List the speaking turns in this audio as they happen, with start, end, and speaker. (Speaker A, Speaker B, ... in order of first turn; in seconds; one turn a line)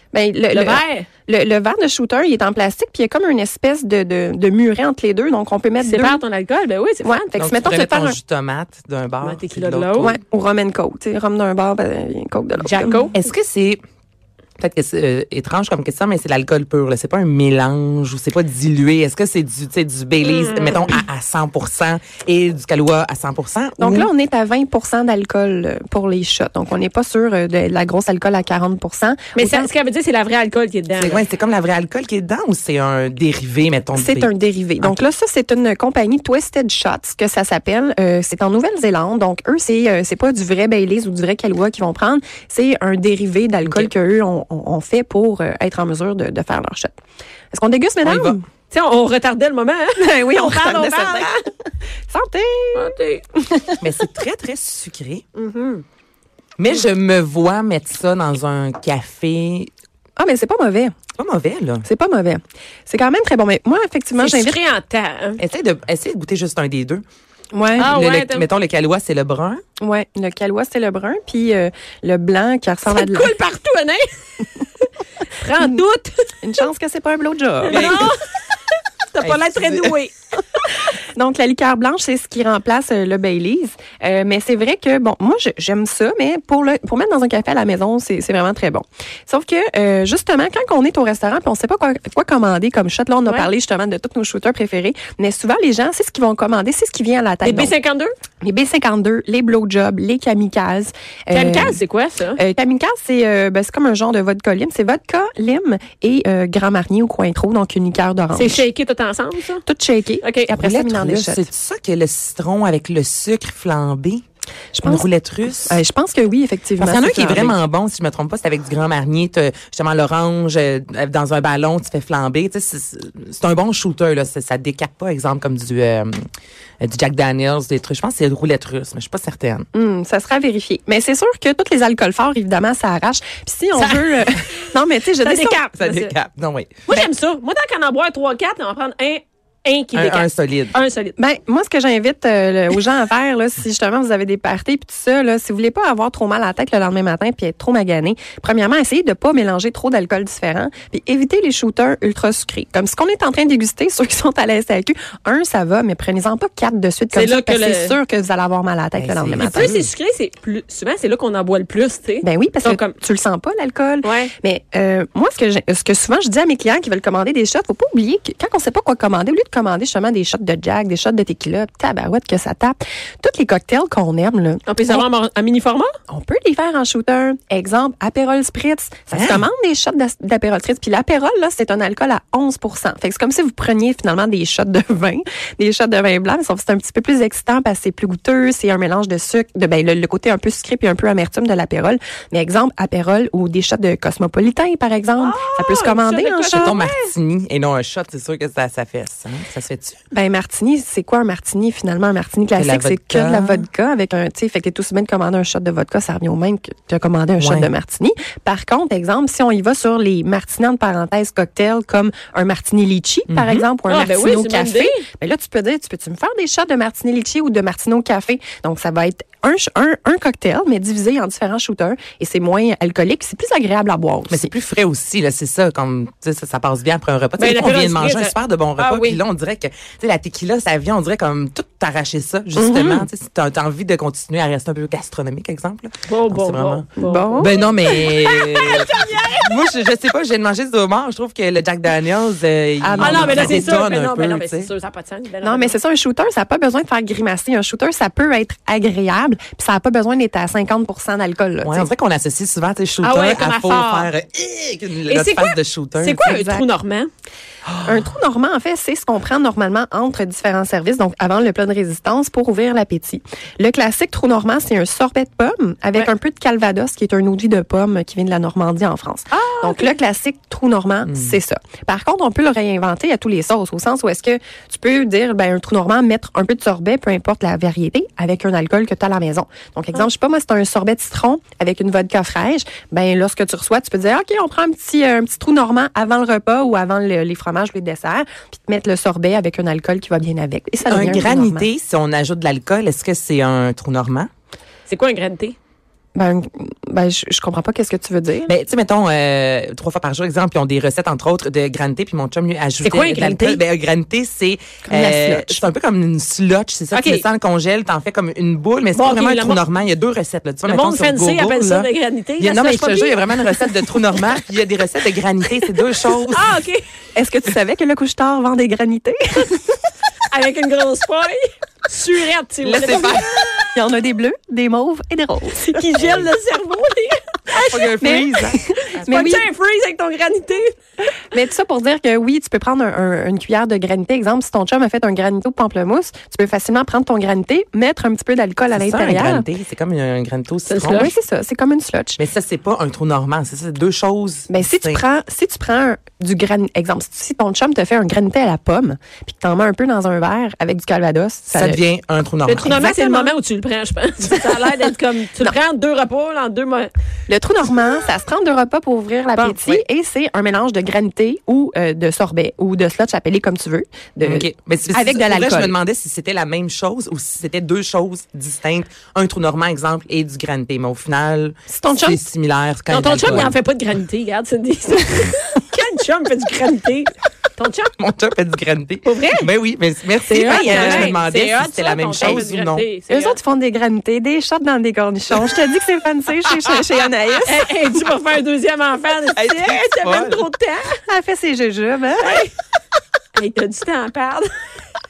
Speaker A: 0.1-6.2
Speaker B: 0.5-1.1
Speaker B: 5.8-7.3
Speaker A: 7.0-8.2
Speaker C: 7.4-10.2
Speaker B: 9.2-10.1
Speaker A: 10.0-13.1
Speaker B: 12.6-13.2
Speaker C: 13.1-13.8
Speaker C: 14.6-24.1
Speaker B: 20.2-21.0
Speaker A: 23.8-29.7
Speaker B: 29.3-31.2
Speaker C: 31.0-35.0
Speaker A: 34.0-47.0
Speaker C: 43.6-43.9
Speaker A: 47.5-48.5
Speaker C: 48.0-48.4
Speaker B: 48.7-51.4
Speaker A: 50.0-51.5
Speaker A: 52.1-53.9
Speaker B: 52.7-53.2
Speaker C: 53.8-55.2
Speaker B: 55.3-55.8
Speaker C: 56.6-59.7
Speaker A: 60.2-61.0
Speaker C: 61.2-61.9
Speaker A: 61.8-64.6
Speaker B: 64.2-65.4
Speaker C: 65.4-67.0
Speaker A: 67.5-67.9
Speaker B: 67.8-68.5
Speaker C: 67.8-69.6
Speaker A: 69.8-73.3
Speaker B: 72.9-74.5
Speaker B: 75.3-76.4
Speaker A: 76.4-78.1
Speaker B: 77.6-78.2
Speaker C: 77.7-78.1
Speaker B: 79.1-80.1
Speaker C: 79.2-79.9
Speaker A: 81.1-97.7
Speaker B: 97.4-98.1
Speaker A: 98.4-101.8
Speaker B: 101.3-102.4
Speaker A: 102.4-108.6
Speaker B: 108.3-109.6
Speaker A: 109.7-111.5
Speaker B: 110.2-110.5
Speaker C: 110.5-114.2
Speaker A: 114.7-115.0
Speaker C: 114.8-115.8
Speaker A: 115.6-117.5
Speaker C: 116.8-126.3
Speaker C: 126.8-129.7
Speaker A: 129.7-135.7
Speaker B: 133.8-134.4
Speaker B: 135.2-136.1
Speaker C: 135.8-136.8
Speaker B: 136.9-141.2
Speaker C: 139.9-140.7
Speaker A: 141.2-159.7
Speaker B: 157.1-157.9
Speaker C: 158.9-159.9
Speaker B: 159.4-162.9
Speaker A: 162.2-175.0
Speaker B: 164.0-164.3
Speaker B: 174.7-175.9
Speaker A: 176.1-196.8
Speaker C: 179.1-179.4
Speaker B: 195.2-197.1
Speaker C: 196.5-200.0
Speaker A: 200.1-224.5
Speaker C: 202.6-203.7
Speaker C: 207.4-207.7
Speaker C: 213.3-213.7
Speaker B: 213.9-215.0
Speaker C: 224.3-244.7
Speaker B: 227.4-229.2
Speaker A: 232.6-233.1
Speaker B: 236.1-239.7
Speaker A: 237.0-237.7
Speaker A: 242.8-243.7
Speaker B: 243.0-245.8
Speaker A: 245.4-251.9
Speaker C: 251.6-256.3
Speaker B: 253.0-254.1
Speaker B: 255.1-257.1
Speaker A: 256.1-256.7
Speaker C: 257.6-258.1
Speaker A: 257.8-291.7
Speaker B: 269.3-269.9
Speaker C: 290.9-294.3
Speaker B: 294.9-295.6
Speaker A: 296.1-298.5
Speaker C: 298.5-316.5
Speaker B: 302.8-303.6
Speaker A: 304.9-305.6
Speaker B: 306.9-307.2
Speaker B: 308.9-309.6
Speaker B: 310.6-313.9
Speaker B: 316.3-316.8
Speaker A: 317.1-319.8
Speaker B: 320.3-323.5
Speaker C: 322.6-323.3
Speaker A: 322.8-325.6
Speaker B: 325.5-328.1
Speaker C: 326.0-326.3
Speaker C: 327.5-328.7
Speaker A: 327.7-329.5
Speaker B: 328.9-330.7
Speaker A: 331.3-339.4
Speaker C: 338.7-341.1
Speaker B: 340.7-341.1
Speaker A: 340.9-342.2
Speaker C: 342.2-345.0
Speaker A: 344.5-351.8
Speaker C: 351.5-352.8
Speaker B: 352.4-356.9
Speaker A: 352.6-353.3
Speaker A: 357.3-365.7
Speaker C: 359.4-359.8
Speaker C: 364.2-373.5
Speaker A: 371.7-372.2
Speaker B: 372.9-377.9
Speaker C: 378.0-382.9
Speaker B: 379.0-379.5
Speaker B: 380.2-383.4
Speaker A: 380.3-381.2
Speaker A: 383.1-387.7
Speaker C: 386.4-386.9
Speaker B: 387.4-391.0
Speaker C: 389.3-390.4
Speaker A: 391.0-392.4
Speaker B: 392.2-392.5
Speaker B: 393.3-394.5